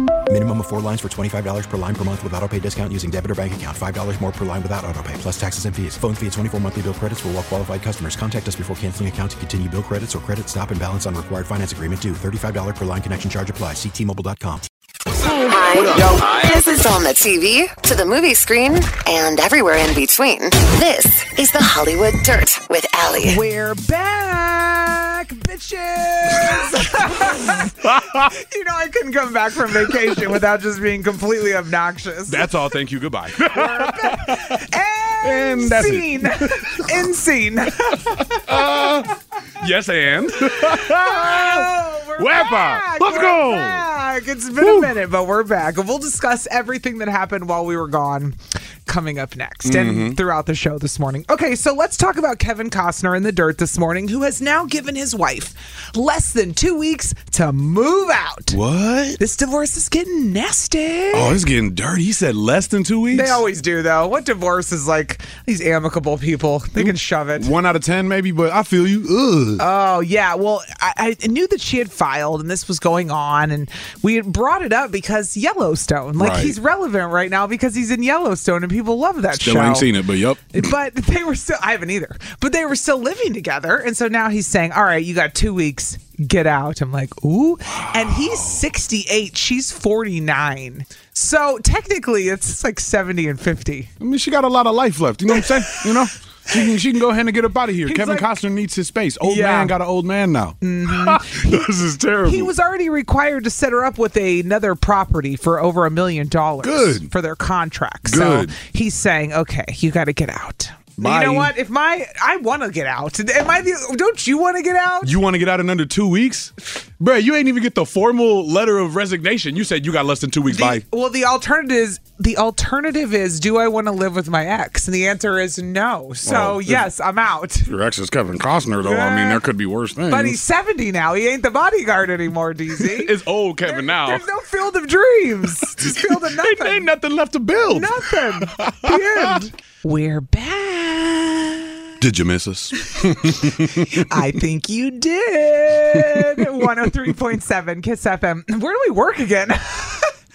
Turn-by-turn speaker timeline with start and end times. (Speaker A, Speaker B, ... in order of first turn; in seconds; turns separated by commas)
Speaker A: 0.3-14.7, Speaker B: 15.2-15.6, Speaker C: 15.4-23.4, Speaker B: 23.2-32.5, Speaker D: 27.6-28.3, Speaker D: 29.9-30.2, Speaker D: 32.3-34.6, Speaker B: 33.4-38.9, Speaker D: 35.2-37.0, Speaker D: 38.0-43.8, Speaker B: 40.4-58.6, Speaker D: 44.6-44.9, Speaker D: 49.6-50.2, Speaker D: 58.5-59.2, Speaker B: 59.2-61.4, Speaker D: 61.1-63.4, Speaker B: 63.1-67.5, Speaker D: 66.8-69.6, Speaker B: 69.6-79.9, Speaker D: 76.2-76.6, Speaker D: 79.3-80.6, Speaker B: 80.5-93.9, Speaker D: 87.9-88.6, Speaker D: 94.0-102.5, Speaker B: 95.3-95.9, Speaker B: 97.8-98.3, Speaker B: 99.2-99.7, Speaker B: 100.6-101.7, Speaker B: 102.2-115.1, Speaker D: 106.6-107.1, Speaker D: 108.0-108.5, Speaker D: 111.0-111.5, Speaker D: 115.0-120.8, Speaker B: 120.5-127.7, Speaker D: 126.2-126.8, Speaker D: 127.7-130.4, Speaker B: 128.8-129.4, Speaker B: 130.1-133.1, Speaker D: 132.8-134.2, Speaker B: 133.6-136.9, Speaker D: 135.6-139.4, Speaker B: 137.7-141.8, Speaker D: 142.0-144.1, Speaker B: 142.9-150.1, Speaker D: 146.0-146.4